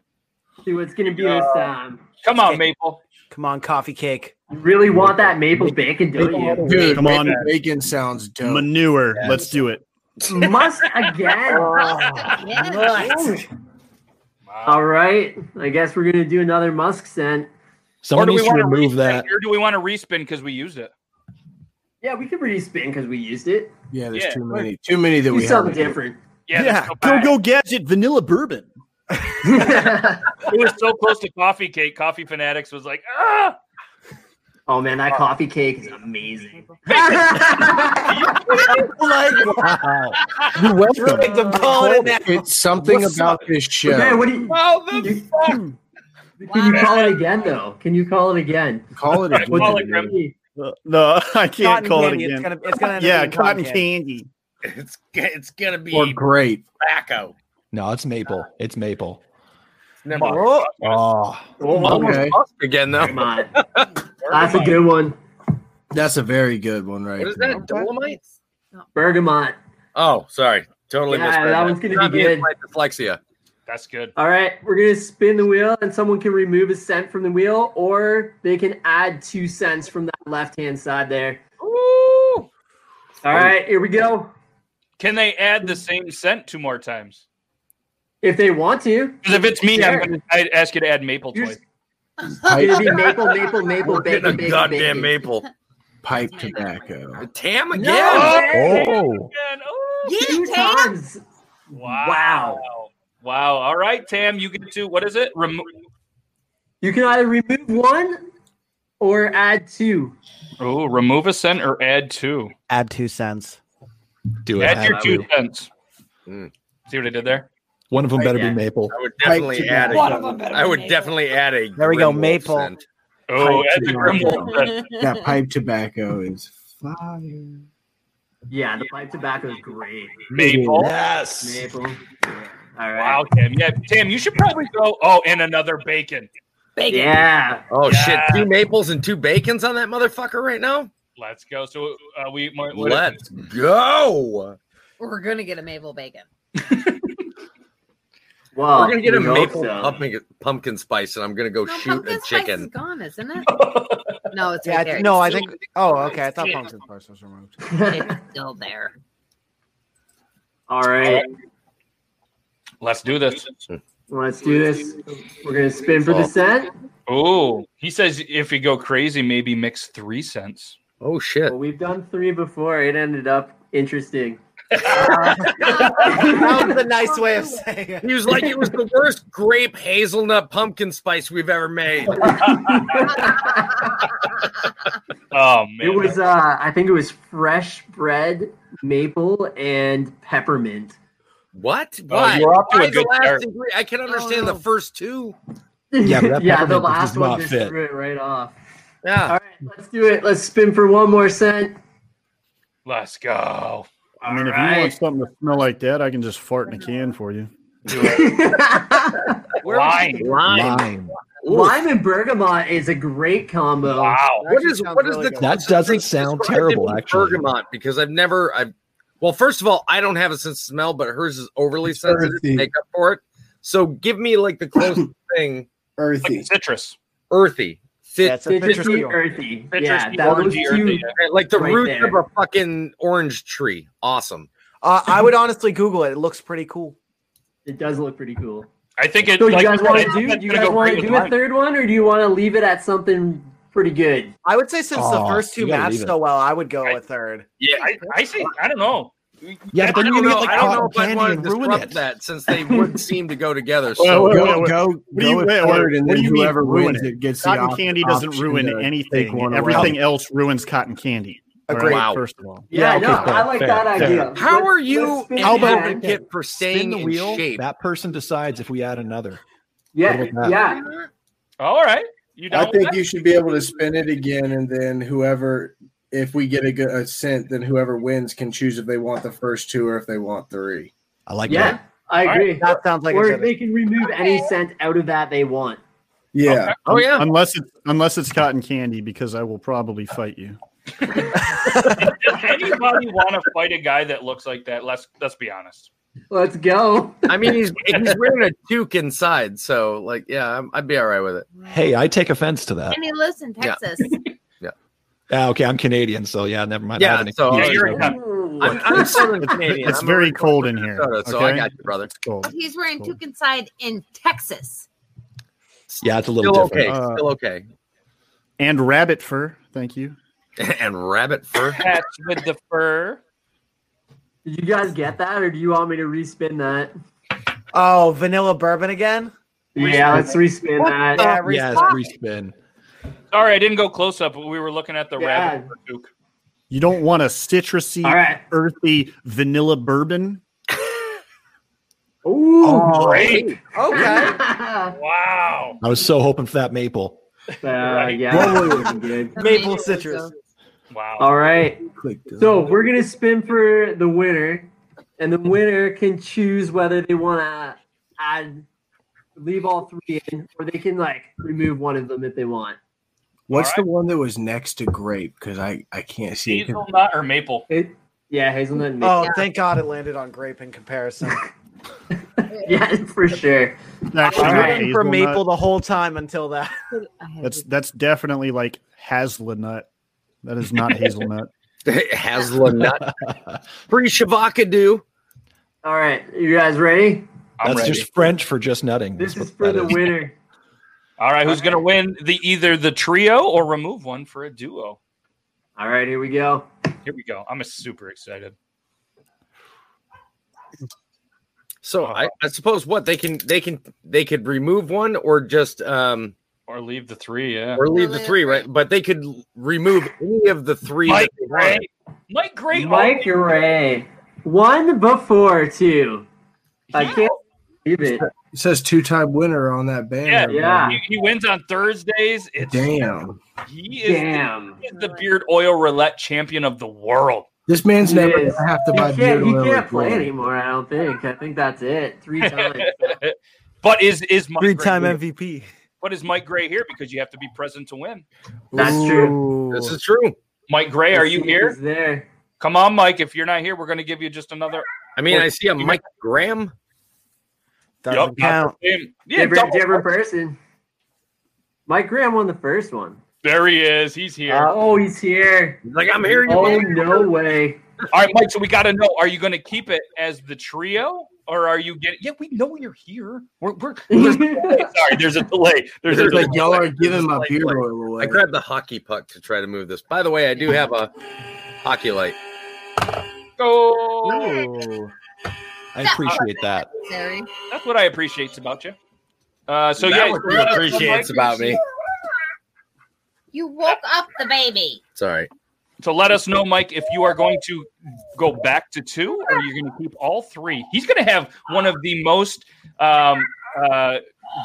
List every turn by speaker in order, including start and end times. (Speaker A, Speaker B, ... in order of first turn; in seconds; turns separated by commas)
Speaker A: 0.6-2.0, Speaker B: 1.2-1.7, Speaker B: 2.2-3.0, Speaker C: 3.3-4.3, Speaker A: 4.5-6.9, Speaker D: 6.4-8.7, Speaker B: 6.8-7.5, Speaker E: 6.9-7.5, Speaker E: 8.4-9.9, Speaker A: 10.3-11.7, Speaker F: 12.4-13.2, Speaker A: 12.6-13.4, Speaker B: 14.5-14.8, Speaker A: 14.7-17.5, Speaker G: 18.0-19.3, Speaker B: 18.1-20.9, Speaker A: 22.0-23.7, Speaker D: 23.9-26.0, Speaker B: 24.1-24.6, Speaker A: 25.3-26.2, Speaker B: 26.5-27.3, Speaker E: 26.5-28.7, Speaker A: 29.4-30.3, Speaker B: 30.5-33.6, Speaker A: 34.7-38.1, Speaker B: 36.9-37.2, Speaker B: 37.9-38.9, Speaker C: 38.9-39.8, Speaker G: 39.4-40.2, Speaker B: 40.2-40.6, Speaker D: 40.6-44.3, Speaker C: 40.8-42.6, Speaker A: 41.1-42.1, Speaker A: 43.9-45.6, Speaker H: 44.5-45.6, Speaker E: 45.5-45.8, Speaker A: 46.4-48.9, Speaker B: 46.5-47.2, Speaker D: 48.9-50.2, Speaker B: 49.3-50.1, Speaker A: 49.5-50.4, Speaker E: 50.6-54.3, Speaker C: 51.6-53.8, Speaker H: 54.6-56.2, Speaker D: 55.9-56.7, Speaker H: 56.8-57.3, Speaker G: 57.7-59.2, Speaker H: 60.0-60.6, Speaker C: 60.2-60.7, Speaker B: 60.2-61.0, Speaker G: 60.8-61.5, Speaker A: 61.6-62.3, Speaker D: 61.8-62.4, Speaker H: 61.8-63.9, Speaker A: 63.0-63.5, Speaker B: 64.2-64.8, Speaker A: 64.3-65.2, Speaker D: 65.9-67.6, Speaker H: 67.2-68.2, Speaker C: 67.6-67.9, Speaker A: 68.9-69.6, Speaker H: 70.0-73.2, Speaker A: 71.1-72.5, Speaker B: 73.7-74.1, Speaker A: 74.2-81.4, Speaker B: 81.6-82.5, Speaker A: 83.2-84.3, Speaker B: 85.0-87.2, Speaker A: 88.2-90.1, Speaker B: 89.2-91.6, Speaker A: 91.3-91.6, Speaker F: 92.3-93.6, Speaker D: 92.4-93.2, Speaker A: 92.5-95.1, Speaker H: 93.8-95.5, Speaker D: 96.0-97.3, Speaker F: 96.3-96.9, Speaker H: 97.2-98.5, Speaker A: 97.7-98.8, Speaker B: 98.0-100.2, Speaker G: 98.5-99.3, Speaker F: 100.0-101.0, Speaker A: 100.2-101.2, Speaker B: 101.7-105.7, Speaker A: 101.8-102.6, Speaker A: 106.8-108.2, Speaker A: 109.0-110.2, Speaker B: 110.6-112.5, Speaker C: 112.7-113.6, Speaker G: 114.5-115.3, Speaker B: 114.6-115.7, Speaker B: 116.9-117.5, Speaker G: 117.9-119.0, Speaker H: 118.2-122.8, Speaker C: 119.2-120.2, Speaker D: 119.3-120.4, Speaker F: 120.3-121.1, Speaker C: 121.8-122.7, Speaker B: 123.3-124.9, Speaker D: 123.4-127.6, Speaker C: 123.4-124.4, Speaker F: 124.5-125.4, Speaker A: 128.5-130.3, Speaker B: 130.3-130.9, Speaker D: 130.3-130.9, Speaker G: 130.8-131.7, Speaker A: 131.4-132.0, Speaker A: 132.8-133.3, Speaker B: 133.0-136.3, Speaker F: 136.8-137.2, Speaker A: 136.9-137.6, Speaker H: 137.7-140.9, Speaker B: 137.8-138.5, Speaker B: 141.2-143.2, Speaker H: 142.8-144.6, Speaker F: 145.0-146.3, Speaker A: 148.6-150.0, Speaker H: 148.7-152.7, Speaker F: 151.7-153.6, Speaker B: 153.5-154.1, Speaker F: 154.3-156.6, Speaker C: 154.6-157.5, Speaker A: 157.7-158.2, Speaker F: 157.9-158.9, Speaker A: 160.7-161.3, Speaker B: 162.8-163.6, Speaker A: 164.1-166.7, Speaker H: 166.1-166.3, Speaker B: 167.1-170.8, Speaker H: 171.0-171.6, Speaker A: 171.5-174.4, Speaker B: 174.8-176.1, Speaker A: 174.9-175.2, Speaker C: 174.9-178.1, Speaker A: 175.9-176.8, Speaker H: 178.0-182.5, Speaker A: 182.2-183.9, Speaker B: 182.2-183.0, Speaker B: 185.3-186.2, Speaker A: 185.8-191.0, Speaker H: 191.5-195.4, Speaker B: 192.1-193.4, Speaker F: 194.1-194.6, Speaker A: 195.9-198.6, Speaker G: 196.0-197.8, Speaker H: 199.0-199.4, Speaker A: 199.2-201.8, Speaker B: 202.9-203.9, Speaker E: 204.2-207.5, Speaker A: 204.2-205.0, Speaker B: 207.9-208.4, Speaker A: 207.9-209.9, Speaker B: 209.6-210.4, Speaker H: 209.9-211.9, Speaker G: 210.4-211.2, Speaker A: 211.4-214.2, Speaker B: 214.0-214.5, Speaker C: 214.4-215.9, Speaker H: 214.5-225.7, Speaker G: 215.4-217.4, Speaker D: 221.8-222.7, Speaker D: 226.0-226.5, Speaker B: 226.2-227.0, Speaker H: 227.3-229.1, Speaker C: 228.2-229.2, Speaker A: 228.5-232.2, Speaker B: 229.7-231.2, Speaker H: 231.2-234.5, Speaker C: 234.8-237.0, Speaker A: 237.7-238.7, Speaker B: 239.0-241.4, Speaker A: 239.3-244.3, Speaker C: 244.4-247.5, Speaker G: 244.9-246.2, Speaker B: 247.6-250.9, Speaker G: 249.7-252.0, Speaker H: 249.9-254.5, Speaker A: 252.6-253.0, Speaker E: 254.0-262.7, Speaker D: 254.2-260.0, Speaker G: 259.7-260.0, Speaker C: 261.7-262.0, Speaker H: 261.8-262.2, Speaker A: 262.7-266.1, Speaker G: 262.7-264.4, Speaker C: 262.7-263.4, Speaker H: 264.3-267.6, Speaker E: 265.4-266.1, Speaker E: 266.7-267.4, Speaker G: 266.7-269.4, Speaker A: 269.9-270.9, Speaker G: 270.1-270.6, Speaker H: 270.7-271.1, Speaker B: 271.6-273.0, Speaker D: 272.5-280.9, Speaker G: 281.3-281.8, Speaker A: 281.5-285.8, Speaker B: 282.2-282.5, Speaker C: 282.6-283.6, Speaker D: 286.3-287.0, Speaker B: 286.5-286.8, Speaker H: 286.9-287.3, Speaker E: 287.1-290.6, Speaker B: 291.9-295.9, Speaker A: 296.3-297.5, Speaker H: 297.3-301.5, Speaker B: 297.9-298.3, Speaker F: 301.6-301.8, Speaker G: 301.7-303.0, Speaker F: 302.9-304.2, Speaker G: 305.3-308.2, Speaker H: 307.0-308.0, Speaker B: 307.5-308.2, Speaker A: 307.9-309.4, Speaker H: 308.6-312.1, Speaker E: 308.9-313.2, Speaker F: 312.4-314.9, Speaker H: 315.9-317.7, Speaker G: 316.0-317.0, Speaker E: 316.8-317.3, Speaker E: 318.6-320.2, Speaker H: 320.6-321.8, Speaker B: 321.8-323.2, Speaker A: 324.4-326.9, Speaker C: 327.7-329.3, Speaker A: 329.8-331.3, Speaker B: 329.8-330.3, Speaker C: 330.0-330.3, Speaker C: 331.1-332.0, Speaker G: 331.2-332.5, Speaker B: 333.3-336.1, Speaker A: 335.2-335.7, Speaker E: 336.7-340.4, Speaker A: 338.0-338.4, Speaker A: 342.2-343.3, Speaker C: 342.7-344.4, Speaker B: 342.9-343.5, Speaker H: 343.1-343.6, Speaker A: 343.9-344.9, Speaker B: 344.9-345.8, Speaker G: 345.8-347.2, Speaker A: 347.6-349.4, Speaker B: 347.8-348.5, Speaker D: 348.3-348.9, Speaker F: 349.4-350.3, Speaker C: 349.4-350.3, Speaker B: 350.9-351.3, Speaker A: 351.2-351.8, Speaker D: 351.9-352.8, Speaker A: 352.4-358.7, Speaker A: 359.4-362.8, Speaker D: 363.5-366.8, Speaker B: 363.5-363.9, Speaker B: 366.5-367.6, Speaker A: 367.7-369.4, Speaker C: 369.0-371.4, Speaker A: 372.6-374.9, Speaker E: 374.1-375.4, Speaker B: 374.4-374.8, Speaker C: 374.4-376.8, Speaker F: 376.9-377.6, Speaker E: 377.4-379.9, Speaker E: 380.4-381.5, Speaker H: 381.9-383.1, Speaker G: 382.8-383.6, Speaker H: 383.9-385.0, Speaker A: 385.8-387.3, Speaker B: 387.6-388.1, Speaker G: 387.6-390.2, Speaker A: 389.2-390.4, Speaker B: 391.2-395.0, Speaker A: 395.8-396.7, Speaker B: 397.1-398.6, Speaker H: 401.8-406.3, Speaker B: 406.7-407.8, Speaker H: 407.8-411.9, Speaker F: 407.9-408.6, Speaker B: 411.1-413.3, Speaker A: 412.7-416.3, Speaker B: 416.9-417.4, Speaker A: 416.9-418.2, Speaker D: 418.4-421.0, Speaker B: 420.3-423.0, Speaker A: 420.5-421.0, Speaker D: 422.6-423.4, Speaker B: 423.6-427.5, Speaker A: 424.1-424.8, Speaker D: 427.7-430.3, Speaker A: 428.0-433.1, Speaker B: 432.4-435.2, Speaker C: 434.6-435.7, Speaker B: 436.0-438.2, Speaker C: 438.7-439.9, Speaker A: 438.7-439.4, Speaker H: 439.7-440.4, Speaker B: 440.7-441.8, Speaker A: 441.1-442.3, Speaker B: 442.6-446.0, Speaker H: 445.2-446.7, Speaker C: 448.0-448.8, Speaker B: 448.1-450.1, Speaker A: 449.3-450.6, Speaker A: 451.9-453.2, Speaker B: 453.4-454.7, Speaker A: 454.5-455.8, Speaker H: 455.8-457.3, Speaker A: 456.4-457.8, Speaker B: 458.1-467.8, Speaker A: 464.1-465.0, Speaker D: 466.1-468.4, Speaker H: 466.1-466.9, Speaker H: 467.6-471.1, Speaker H: 471.8-472.4, Speaker B: 473.6-474.5, Speaker F: 474.3-474.8, Speaker G: 475.9-476.9, Speaker F: 476.0-477.5, Speaker B: 477.7-479.0, Speaker B: 479.7-481.7, Speaker H: 480.0-481.8, Speaker F: 481.0-481.6, Speaker F: 483.5-485.0, Speaker H: 485.2-485.5, Speaker B: 486.0-494.2